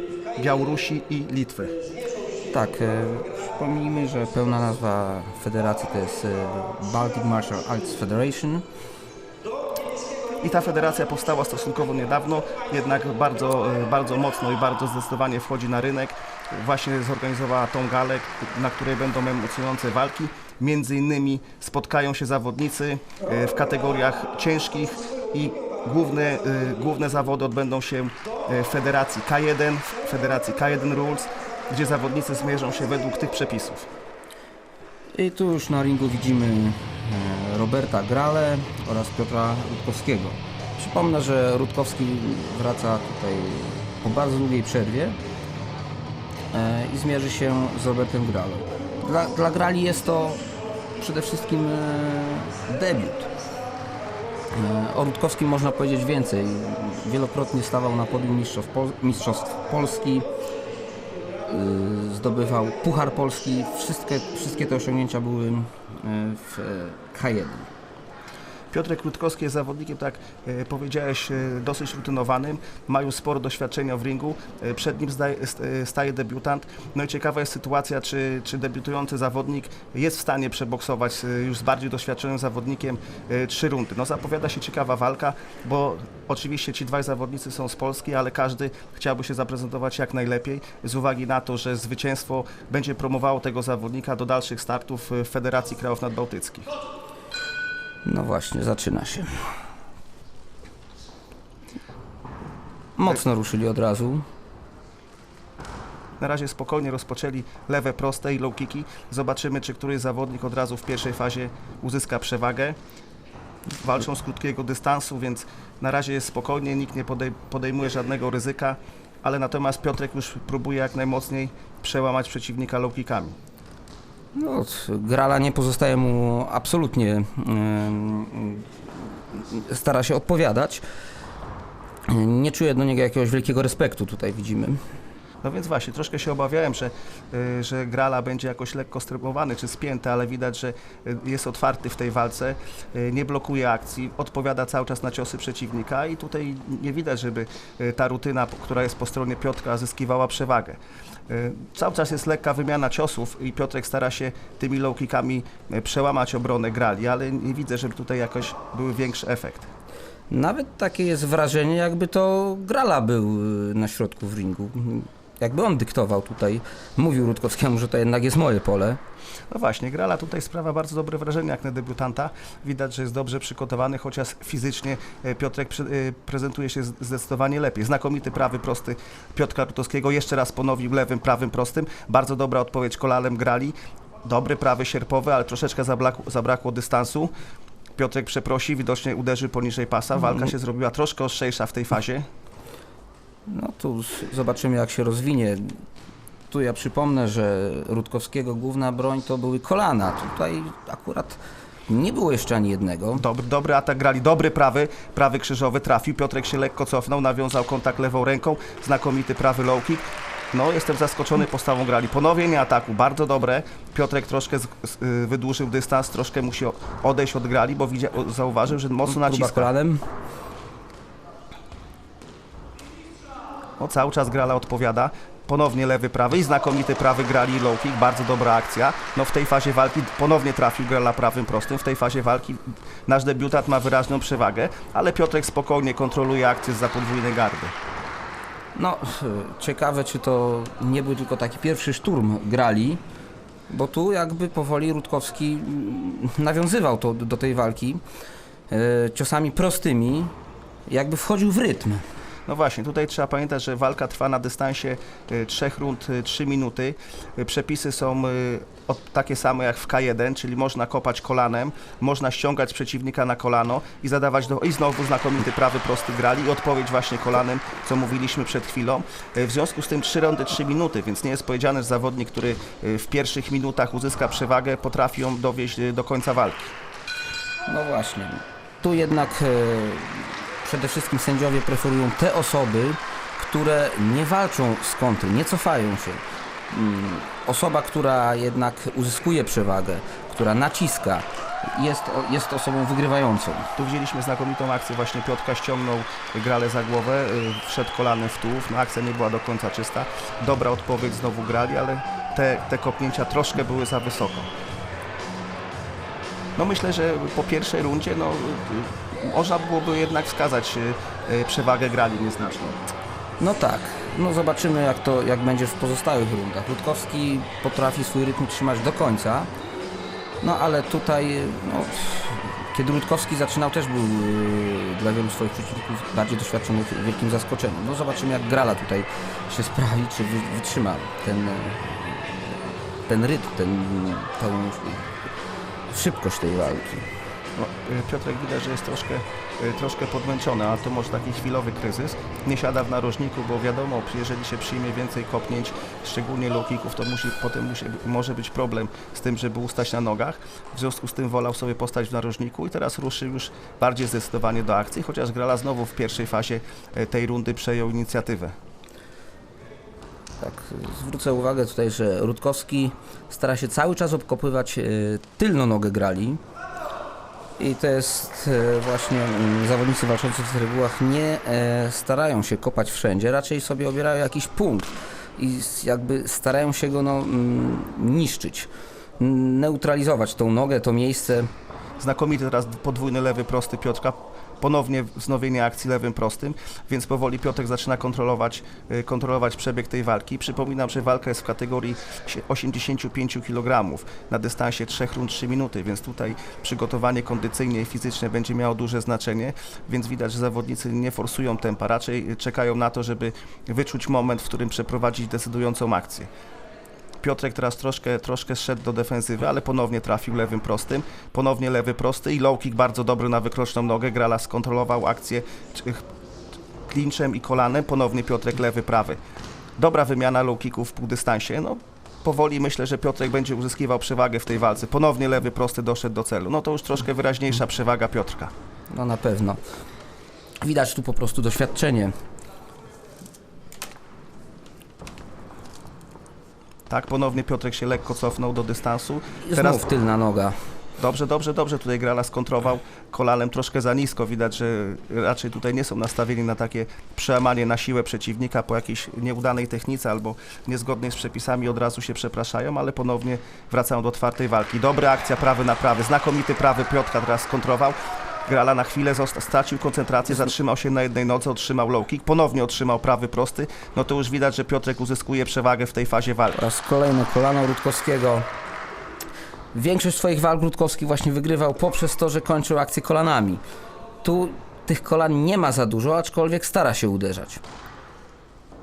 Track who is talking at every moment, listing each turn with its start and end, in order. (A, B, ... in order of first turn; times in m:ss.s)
0:00.3-0:01.8 A
0:02.5-0:08.6 B
0:10.4-0:33.9 A
0:35.1-0:45.2 B
0:46.5-0:50.4 B
0:51.0-0:53.3 B
0:54.5-1:00.2 B
1:01.4-1:07.7 B
1:08.7-1:36.7 A
1:38.0-1:39.5 B
1:43.0-1:44.2 B
1:46.2-1:52.8 A
1:53.8-2:03.4 A
2:04.3-2:10.8 B
2:12.1-2:14.8 B
2:15.4-2:39.7 A
2:40.3-2:49.0 B
2:49.5-3:07.3 A
3:08.0-3:12.2 A
3:13.5-3:15.8 B
3:16.5-3:23.2 B
3:23.2-3:39.7 A
3:39.0-3:40.0 B
3:43.8-3:57.7 A
3:58.7-4:03.0 B
4:03.7-4:08.0 B
4:08.7-4:10.3 B
4:10.9-4:12.0 B
4:12.5-4:36.7 A
4:37.6-4:53.7 B
4:53.8-5:04.5 A
5:06.6-5:12.9 A
5:13.4-5:19.5 B
5:20.4-5:35.1 B
5:35.9-5:37.1 B
5:37.6-5:58.5 A
6:00.4-6:06.4 B
6:07.6-6:18.7 B
6:19.2-6:21.5 B
6:22.0-6:46.3 A
6:47.2-6:56.0 A
6:56.9-6:59.2 A
6:59.8-7:08.5 A
7:08.9-7:09.6 B
7:10.6-7:12.1 B
7:16.9-7:19.9 A
7:19.4-7:20.6 B
7:21.0-7:46.6 A
7:46.5-7:48.5 B
7:49.7-7:53.6 B
7:54.2-7:57.6 B